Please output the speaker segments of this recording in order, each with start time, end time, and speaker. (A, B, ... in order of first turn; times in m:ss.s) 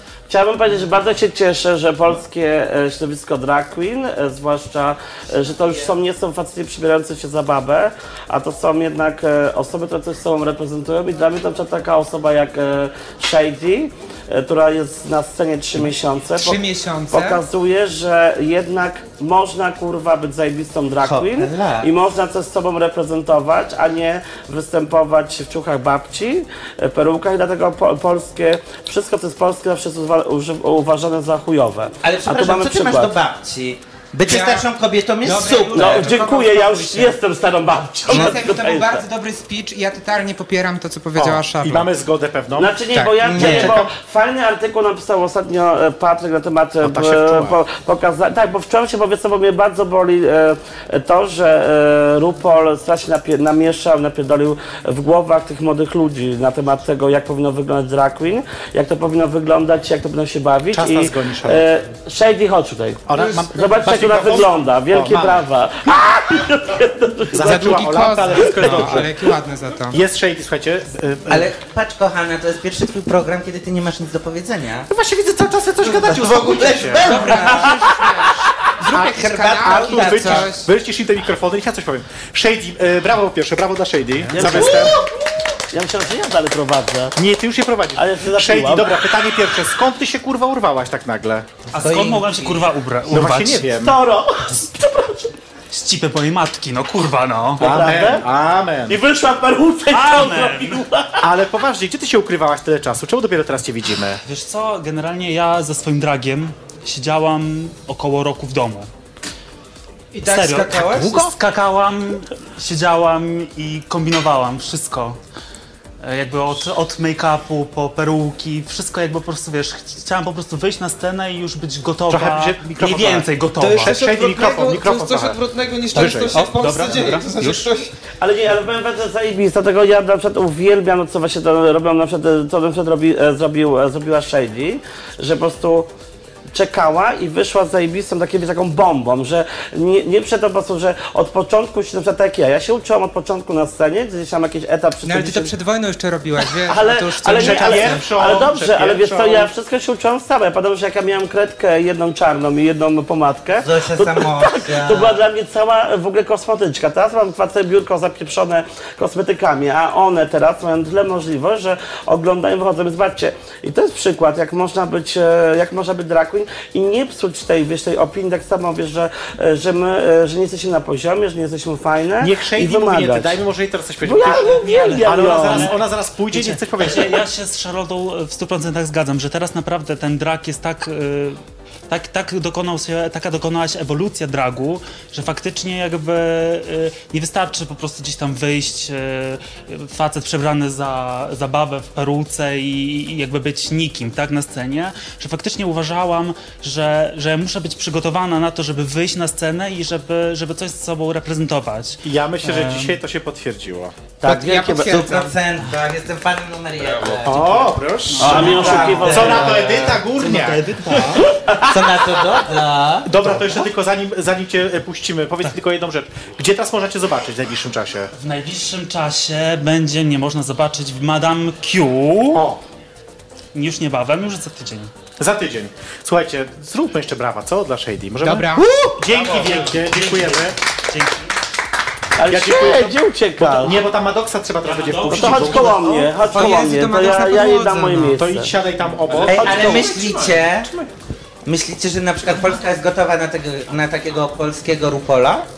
0:00.3-0:33.1 A
0:16.3-0:17.4 B
0:21.0-0:21.9 C
0:32.0-0:36.2 C
0:34.2-0:34.6 B
0:35.2-0:37.2 B
0:35.7-0:39.0 A
0:38.1-0:41.9 B
0:41.2-0:43.9 D
0:42.6-1:07.7 A
0:42.9-0:43.3 B
0:43.2-0:43.8 C
0:46.8-0:47.6 D
1:00.7-1:01.6 D
1:03.1-1:05.4 D
1:03.1-1:03.5 B
1:07.3-1:09.2 D
1:07.4-1:10.0 B
1:08.6-1:09.0 A
1:09.9-1:11.5 D
1:11.3-1:14.9 C
1:14.9-1:17.6 D
1:15.8-1:17.9 C
1:17.0-1:20.7 B
1:18.9-1:20.5 C
1:18.9-1:25.0 D
1:24.3-1:27.2 A
1:24.4-1:25.0 C
1:27.2-1:31.6 D
1:28.0-1:29.0 A
1:31.7-1:33.7 E
1:31.8-1:32.6 C
1:33.1-1:34.0 D
1:33.8-1:35.3 A
1:35.7-1:37.7 E
1:37.6-1:38.2 A
1:37.6-1:39.0 D
1:38.9-1:41.2 A
1:39.9-1:40.8 E
1:41.2-1:44.2 D
1:44.2-1:48.9 E
1:50.1-1:51.1 C
1:50.2-1:55.2 E
1:50.8-1:51.3 D
1:56.0-2:04.0 E
2:02.1-2:07.2 D
2:03.6-2:07.9 F
2:06.3-2:07.6 E
2:08.2-2:15.9 A
2:16.5-2:25.5 A
2:25.0-2:28.0 B
2:26.7-2:53.4 A
2:27.4-2:29.5 D
2:33.6-2:35.2 C
2:52.2-2:57.2 D
2:54.0-2:55.7 A
2:54.6-2:55.8 E
2:56.3-3:23.0 E
3:22.0-3:24.1 D
3:24.2-3:25.0 A
3:24.2-3:25.4 B
3:24.7-3:33.4 C
3:27.0-3:30.8 D
3:28.2-3:29.2 E
3:28.2-3:31.8 A
3:33.0-3:38.1 D
3:38.1-3:42.4 E
3:42.3-3:42.6 D
3:43.5-3:44.9 E
3:45.2-3:50.6 D
3:48.2-3:48.8 B
3:49.1-3:51.3 E
3:52.2-3:53.8 A
3:52.3-3:56.2 D
3:54.6-3:55.8 E
3:55.0-3:58.5 A
3:56.2-3:58.2 B
3:58.1-4:00.9 D
3:59.2-4:00.7 C
4:01.4-4:05.5 C